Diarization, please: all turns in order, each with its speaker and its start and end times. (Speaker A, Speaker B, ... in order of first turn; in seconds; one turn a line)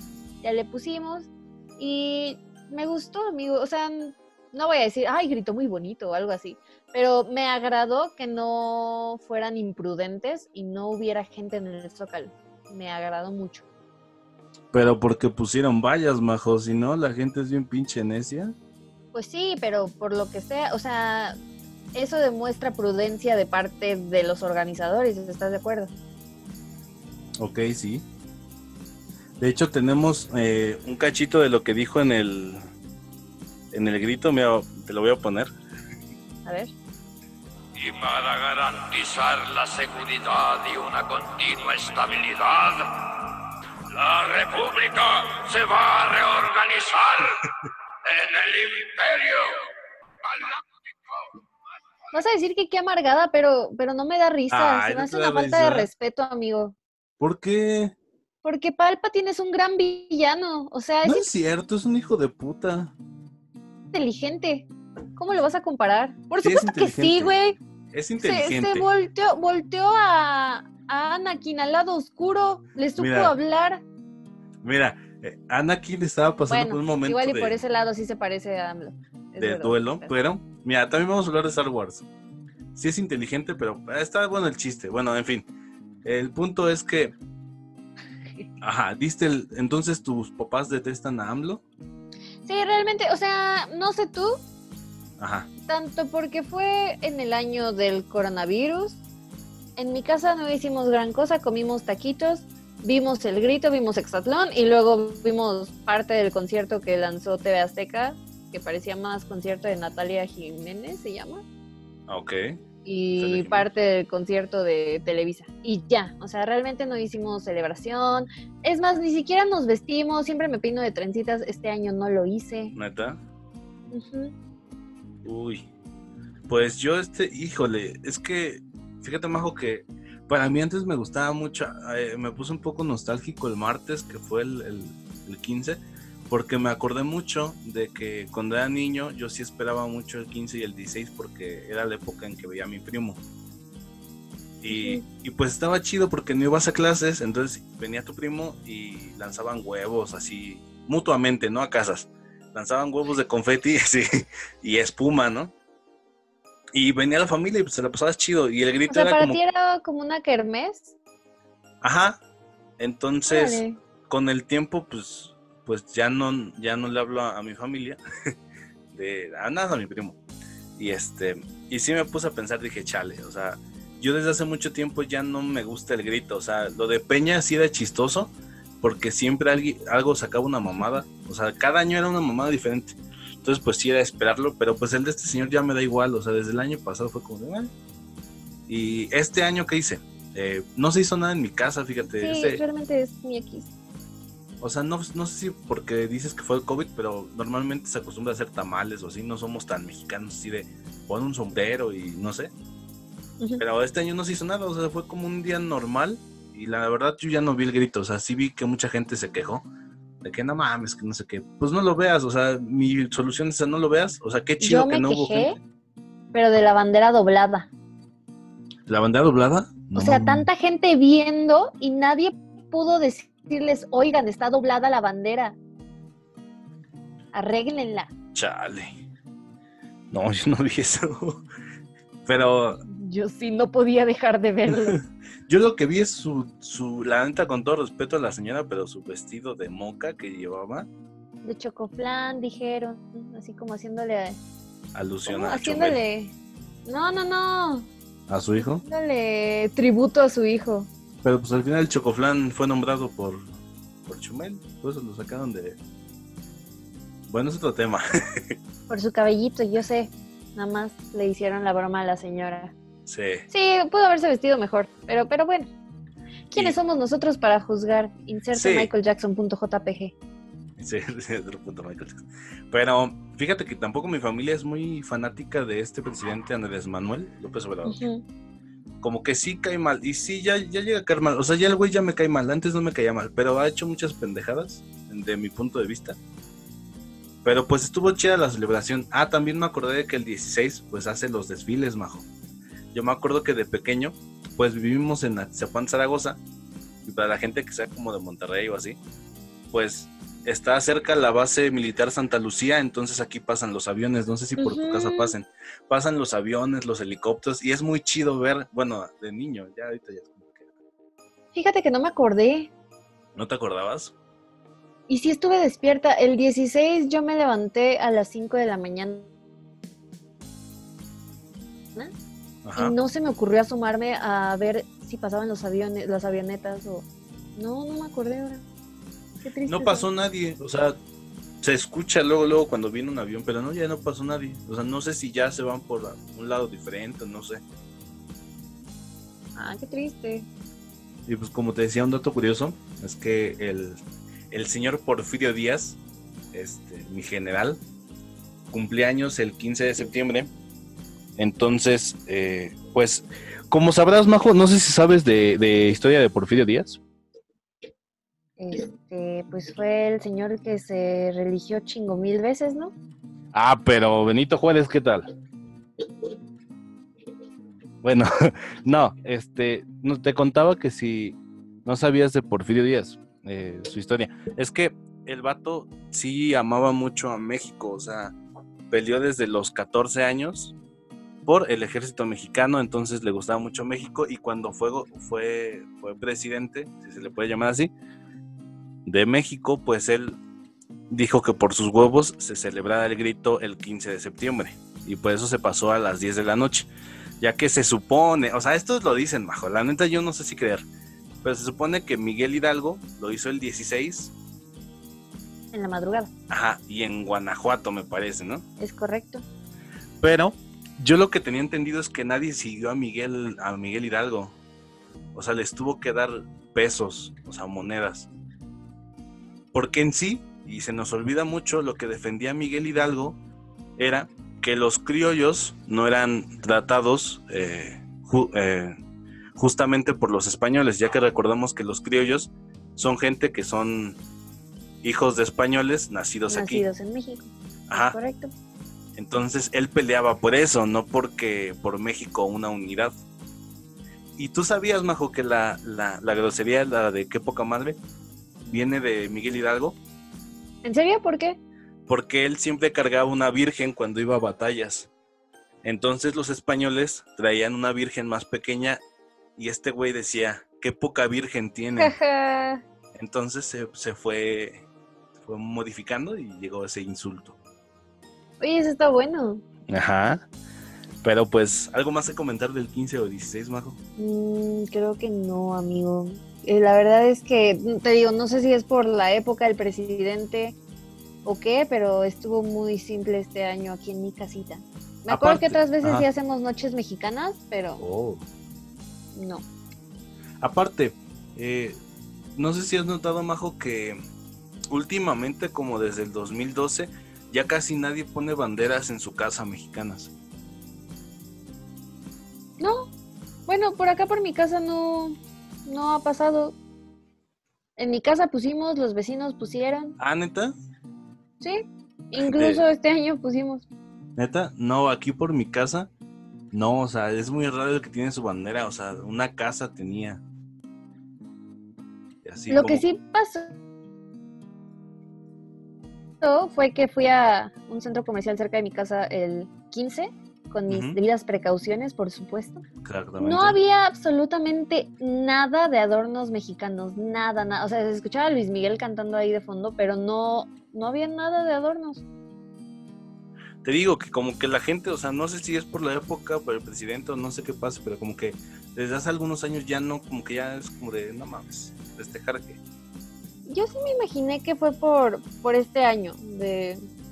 Speaker A: 0.4-13.7
Speaker B: 14.7-18.5
Speaker A: 19.1-21.4
Speaker A: 21.9-25.9
Speaker B: 27.4-28.1
Speaker B: 29.4-32.6
Speaker B: 33.7-35.5
Speaker A: 36.5-36.7
Speaker C: 37.8-42.9
Speaker C: 43.9-47.5
Speaker C: 48.1-49.6
Speaker C: 50.3-50.6
Speaker A: 52.1-56.8
Speaker B: 54.5-55.9
Speaker B: 57.2-58.0
Speaker A: 58.4-61.3
Speaker B: 61.0-62.9
Speaker A: 63.9-67.6
Speaker B: 66.4-67.4
Speaker B: 67.9-68.9
Speaker A: 68.2-73.8
Speaker B: 73.0-73.4
Speaker B: 74.6-77.6
Speaker A: 76.5-80.1
Speaker B: 79.4-82.1
Speaker B: 82.8-85.5
Speaker B: 86.0-87.2
Speaker B: 88.6-91.6
Speaker A: 92.5-94.4
Speaker B: 95.2-95.5
Speaker A: 95.7-99.0
Speaker A: 99.8-111.4
Speaker B: 112.1-112.6
Speaker A: 112.8-122.8
Speaker B: 113.2-113.7
Speaker B: 122.8-123.2
Speaker A: 123.9-124.3
Speaker B: 125.2-125.7
Speaker B: 126.5-143.2
Speaker B: 144.6-155.5
Speaker A: 144.7-145.0
Speaker B: 156.7-159.4
Speaker A: 158.9-160.9
Speaker B: 161.8-162.2
Speaker B: 162.8-168.0
Speaker A: 163.3-163.8
Speaker B: 168.9-170.2
Speaker B: 170.8-187.7
Speaker A: 180.7-181.0
Speaker B: 188.7-192.6
Speaker A: 192.0-193.7
Speaker B: 194.6-202.5
Speaker B: 203.6-209.7
Speaker B: 210.2-215.5
Speaker A: 214.6-215.6
Speaker A: 216.3-217.7
Speaker B: 218.9-220.5
Speaker A: 220.0-225.6
Speaker A: 227.3-228.1
Speaker B: 228.3-229.0
Speaker B: 230.1-231.4
Speaker B: 232.3-232.8
Speaker A: 232.8-235.0
Speaker B: 234.7-240.9
Speaker A: 241.4-244.4
Speaker B: 244.9-246.0
Speaker A: 245.3-246.3
Speaker A: 246.9-247.9
Speaker B: 248.3-248.8
Speaker A: 248.6-250.9
Speaker B: 251.2-253.5
Speaker B: 254.1-255.8
Speaker B: 257.3-258.6
Speaker A: 258.9-262.7
Speaker B: 263.1-263.5
Speaker A: 263.5-265.7
Speaker A: 266.5-270.1
Speaker B: 268.5-268.9
Speaker B: 270.8-278.0
Speaker A: 277.9-278.2
Speaker B: 279.0-286.2
Speaker B: 287.4-292.3
Speaker B: 292.9-296.4
Speaker B: 297.0-299.0
Speaker B: 299.7-310.7
Speaker A: 304.6-305.4
Speaker A: 311.5-312.7
Speaker B: 313.4-314.1
Speaker A: 315.1-319.3
Speaker B: 322.6-322.9
Speaker A: 322.8-328.6
Speaker A: 329.4-330.1
Speaker B: 329.7-331.0
Speaker B: 331.6-337.6
Speaker A: 339.6-340.5
Speaker B: 341.3-346.0
Speaker B: 346.5-347.8
Speaker B: 348.7-350.5
Speaker B: 351.4-357.0
Speaker A: 358.6-362.9
Speaker B: 363.5-365.3
Speaker B: 368.0-378.4
Speaker B: 378.9-380.8
Speaker B: 381.4-387.9
Speaker B: 389.1-390.4
Speaker B: 391.1-400.9
Speaker B: 401.4-404.3
Speaker A: 405.7-406.3
Speaker B: 406.5-408.6
Speaker A: 408.8-409.4
Speaker B: 410.2-414.6
Speaker B: 415.3-418.3
Speaker B: 419.7-423.4
Speaker B: 424.0-429.0
Speaker B: 429.6-434.2
Speaker B: 435.0-436.9
Speaker A: 436.5-438.5
Speaker B: 437.9-438.2
Speaker B: 439.2-443.2
Speaker B: 444.4-448.0
Speaker B: 448.6-450.0
Speaker A: 450.8-451.6
Speaker B: 452.1-455.1
Speaker B: 455.8-459.0
Speaker B: 459.6-462.1
Speaker A: 462.0-462.8
Speaker B: 463.1-464.9
Speaker B: 465.4-467.6
Speaker A: 468.6-469.6
Speaker B: 469.9-470.4
Speaker B: 471.2-474.0
Speaker A: 474.2-480.8
Speaker A: 481.4-488.0
Speaker B: 485.3-486.3
Speaker B: 488.0-488.4
Speaker A: 489.4-489.6
Speaker B: 490.6-492.0
Speaker B: 492.6-494.2
Speaker B: 494.9-500.3
Speaker A: 502.8-503.1
Speaker A: 503.7-506.8
Speaker A: 508.0-510.2
Speaker B: 510.2-510.8
Speaker A: 511.6-513.9
Speaker B: 512.4-512.8
Speaker B: 514.4-516.1
Speaker B: 516.7-520.4
Speaker B: 522.4-523.0
Speaker A: 522.7-523.8
Speaker A: 526.4-532.8
Speaker B: 530.9-531.2
Speaker B: 533.0-533.8
Speaker A: 533.4-542.2
Speaker B: 543.8-552.8
Speaker A: 553.7-557.0